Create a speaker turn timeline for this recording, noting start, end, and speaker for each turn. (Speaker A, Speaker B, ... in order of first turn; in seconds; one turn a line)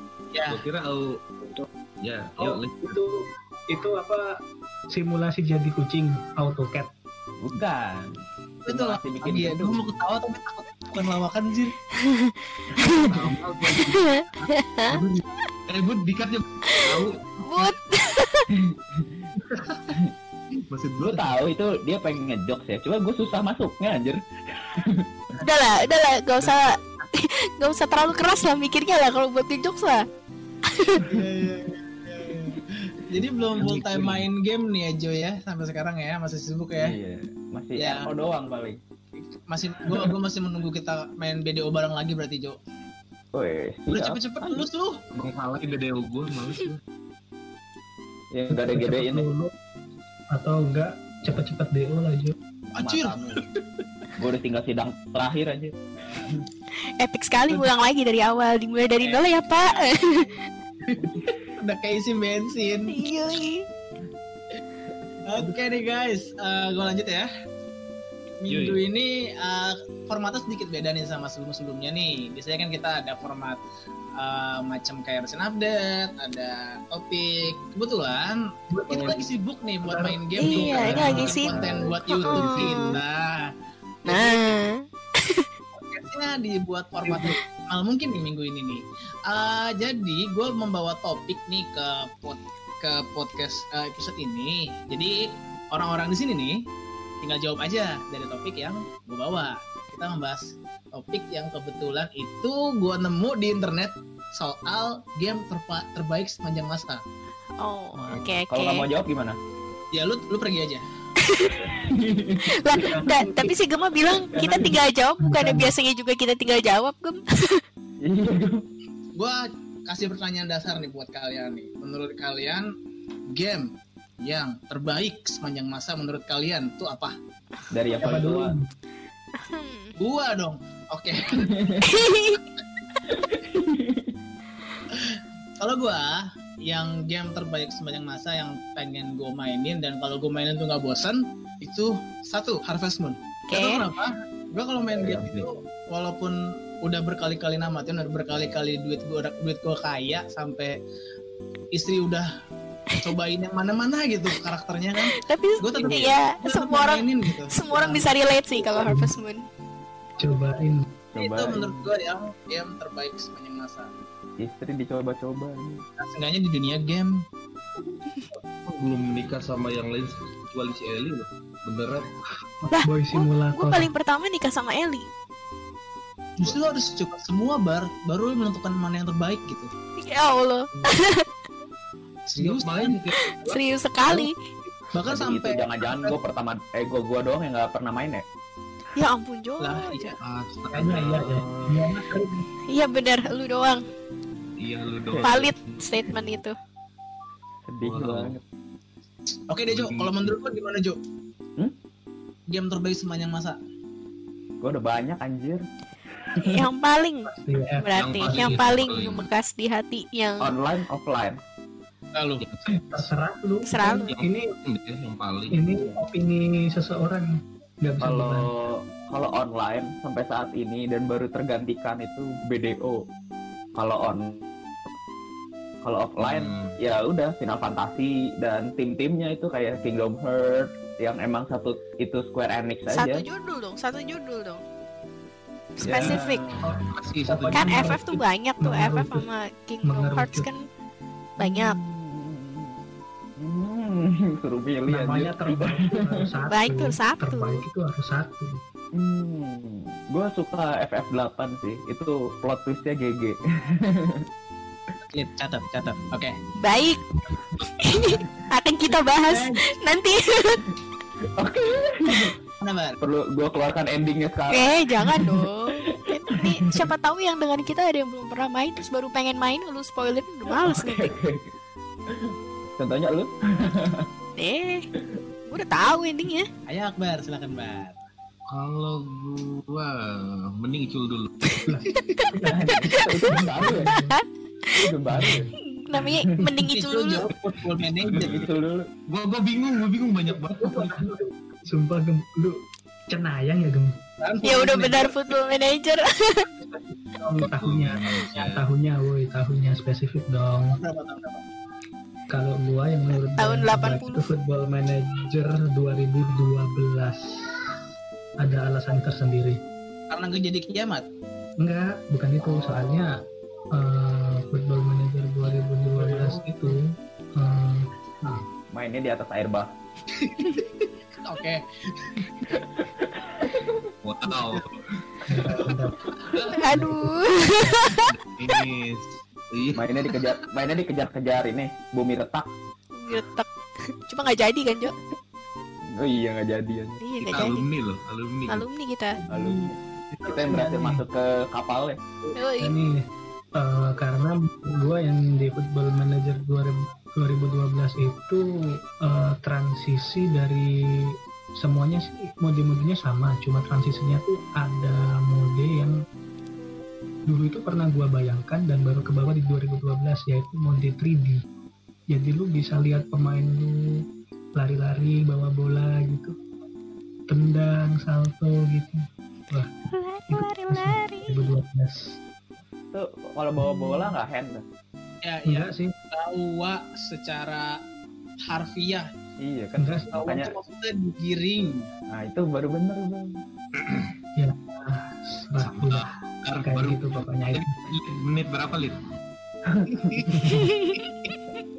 Speaker A: 0.3-0.6
Speaker B: 0.5-3.0
Speaker C: 2.4-4.2
Speaker C: 4.9-6.9
Speaker D: 7.4-9.8
Speaker A: 8.7-11.7
Speaker E: 11.9-13.0
Speaker D: 12.7-13.3
Speaker B: 12.9-17.7
Speaker E: 13.7-15.0
Speaker E: 16.7-18.5
Speaker D: 18.5-19.2
Speaker B: 20.7-21.4
Speaker D: 21.0-25.4
Speaker E: 25.4-30.0
Speaker B: 26.4-27.1
Speaker E: 30.7-31.0
Speaker A: 31.0-37.0
Speaker B: 33.5-34.2
Speaker D: 36.8-38.8
Speaker A: 37.8-38.2
Speaker A: 39.2-42.6
Speaker D: 43.3-44.6
Speaker A: 43.9-45.0
Speaker B: 45.1-46.8
Speaker D: 48.3-49.3
Speaker C: 48.5-49.5
Speaker C: 50.3-52.4
Speaker A: 52.8-53.6
Speaker D: 52.8-53.4
Speaker D: 54.2-55.7
Speaker E: 57.0-60.3
Speaker A: 60.8-63.0
Speaker E: 62.9-63.6
Speaker A: 65.3-67.3
Speaker A: 68.4-73.6
Speaker B: 68.5-68.8
Speaker A: 74.2-83.5
Speaker C: 78.7-79.2
Speaker C: 79.8-80.3
Speaker E: 80.3-82.8
Speaker B: 80.4-83.0
Speaker A: 84.0-84.6
Speaker E: 84.1-85.5
Speaker A: 85.7-96.5
Speaker A: 97.2-107.0
Speaker E: 107.6-108.9
Speaker D: 108.0-109.4
Speaker A: 109.9-110.8
Speaker E: 111.2-111.6
Speaker D: 111.5-112.8
Speaker E: 112.5-117.6
Speaker C: 112.8-113.5
Speaker C: 114.3-115.7
Speaker D: 118.0-118.7
Speaker A: 119.2-122.7
Speaker A: 123.3-123.7
Speaker A: 124.2-127.1
Speaker D: 127.7-128.5
Speaker C: 128.0-128.7
Speaker E: 129.3-129.9
Speaker A: 130.0-131.6
Speaker D: 131.2-132.0
Speaker E: 131.8-132.4
Speaker D: 133.0-134.1
Speaker A: 134.9-150.7
Speaker E: 143.5-143.8
Speaker D: 145.0-145.5
Speaker A: 151.7-152.3
Speaker A: 153.0-158.1
Speaker E: 155.2-159.4
Speaker C: 158.7-159.1
Speaker C: 160.2-160.8
Speaker D: 161.1-161.9
Speaker A: 161.2-163.9
Speaker D: 164.4-165.8
Speaker A: 166.0-167.1
Speaker B: 168.7-172.1
Speaker E: 172.7-175.1
Speaker C: 172.8-173.9
Speaker A: 176.4-179.7
Speaker E: 180.0-181.2
Speaker A: 182.3-183.0
Speaker B: 182.3-183.6
Speaker E: 183.4-184.3
Speaker A: 184.9-186.2
Speaker D: 185.1-188.2
Speaker E: 188.9-190.1
Speaker A: 189.6-190.1
Speaker B: 190.2-191.9
Speaker C: 190.7-192.5
Speaker E: 192.7-193.8
Speaker B: 194.6-195.8
Speaker D: 195.1-195.4
Speaker E: 195.2-196.5
Speaker D: 197.7-198.4
Speaker B: 197.8-198.3
Speaker A: 199.5-201.0
Speaker B: 199.7-200.3
Speaker A: 202.5-203.6
Speaker D: 204.6-205.6
Speaker E: 206.4-210.5
Speaker C: 207.2-207.8
Speaker B: 207.9-209.3
Speaker D: 210.4-211.4
Speaker A: 212.2-213.0
Speaker C: 212.7-214.5
Speaker E: 213.7-214.1
Speaker B: 214.1-215.6
Speaker C: 215.5-217.3
Speaker D: 215.7-216.0
Speaker C: 217.8-218.5
Speaker D: 218.0-223.0
Speaker D: 223.8-224.4
Speaker D: 225.8-233.2
Speaker B: 226.2-226.8
Speaker E: 232.9-234.6
Speaker E: 235.8-236.4
Speaker D: 235.8-236.7
Speaker C: 236.6-239.2
Speaker B: 236.7-237.9
Speaker E: 237.5-240.6
Speaker C: 239.9-240.5
Speaker E: 241.4-241.8
Speaker D: 241.4-242.8
Speaker D: 243.4-246.3
Speaker C: 244.9-248.6
Speaker E: 246.5-247.6
Speaker D: 248.9-254.2
Speaker A: 255.1-256.3
Speaker E: 256.6-257.0
Speaker E: 257.8-260.6
Speaker D: 258.0-258.4
Speaker D: 261.4-262.4
Speaker A: 262.6-263.0
Speaker D: 263.0-266.9
Speaker E: 264.5-271.1
Speaker D: 270.5-271.5
Speaker D: 272.1-274.1
Speaker E: 274.4-274.9
Speaker E: 275.5-276.5
Speaker A: 276.7-278.0
Speaker B: 278.5-281.3
Speaker E: 281.5-282.3
Speaker C: 281.6-284.1
Speaker D: 282.5-283.9
Speaker E: 282.9-283.3
Speaker E: 283.9-284.2
Speaker D: 284.8-286.5
Speaker C: 285.1-285.5
Speaker E: 285.7-287.2
Speaker A: 286.6-288.5
Speaker B: 287.8-288.5
Speaker D: 288.1-288.8
Speaker B: 289.1-291.1
Speaker C: 290.5-292.6
Speaker C: 293.1-294.0
Speaker A: 294.2-295.2
Speaker E: 294.4-296.5
Speaker C: 296.6-300.8
Speaker B: 297.5-298.6
Speaker A: 300.7-301.4
Speaker C: 302.3-307.2
Speaker E: 303.4-304.2
Speaker C: 308.4-309.6
Speaker A: 310.1-311.1
Speaker C: 311.6-313.1
Speaker C: 313.7-316.8
Speaker B: 316.0-316.4
Speaker C: 317.4-318.4
Speaker D: 318.7-319.7
Speaker A: 320.1-322.3
Speaker D: 322.5-323.9
Speaker B: 324.0-325.0
Speaker A: 324.2-324.6
Speaker C: 325.3-326.0
Speaker B: 326.3-326.5
Speaker E: 326.6-328.1
Speaker C: 326.6-327.9
Speaker B: 328.1-330.3
Speaker D: 329.7-332.5
Speaker E: 332.9-334.9
Speaker D: 335.9-337.0
Speaker E: 337.0-337.6
Speaker B: 337.2-338.6
Speaker E: 338.5-339.2
Speaker D: 339.3-342.0
Speaker C: 339.3-339.6
Speaker C: 340.2-341.0
Speaker E: 342.4-342.8
Speaker C: 342.6-343.0
Speaker C: 343.6-348.4
Speaker C: 349.0-355.9
Speaker C: 357.3-361.4
Speaker C: 362.1-364.0
Speaker C: 364.6-366.3
Speaker C: 367.3-369.7
Speaker E: 369.9-371.5
Speaker C: 370.3-372.1
Speaker D: 372.9-374.6
Speaker C: 373.6-374.1
Speaker A: 375.2-377.7
Speaker C: 375.4-375.9
Speaker A: 378.5-379.1
Speaker D: 379.4-380.5
Speaker C: 379.8-380.1
Speaker A: 380.1-381.9
Speaker D: 382.1-383.4
Speaker B: 383.8-384.1
Speaker C: 384.4-386.1
Speaker B: 385.6-389.0
Speaker C: 386.6-387.7
Speaker D: 389.6-390.1
Speaker A: 389.9-390.3
Speaker C: 390.3-390.7
Speaker E: 390.5-391.3
Speaker A: 390.9-391.4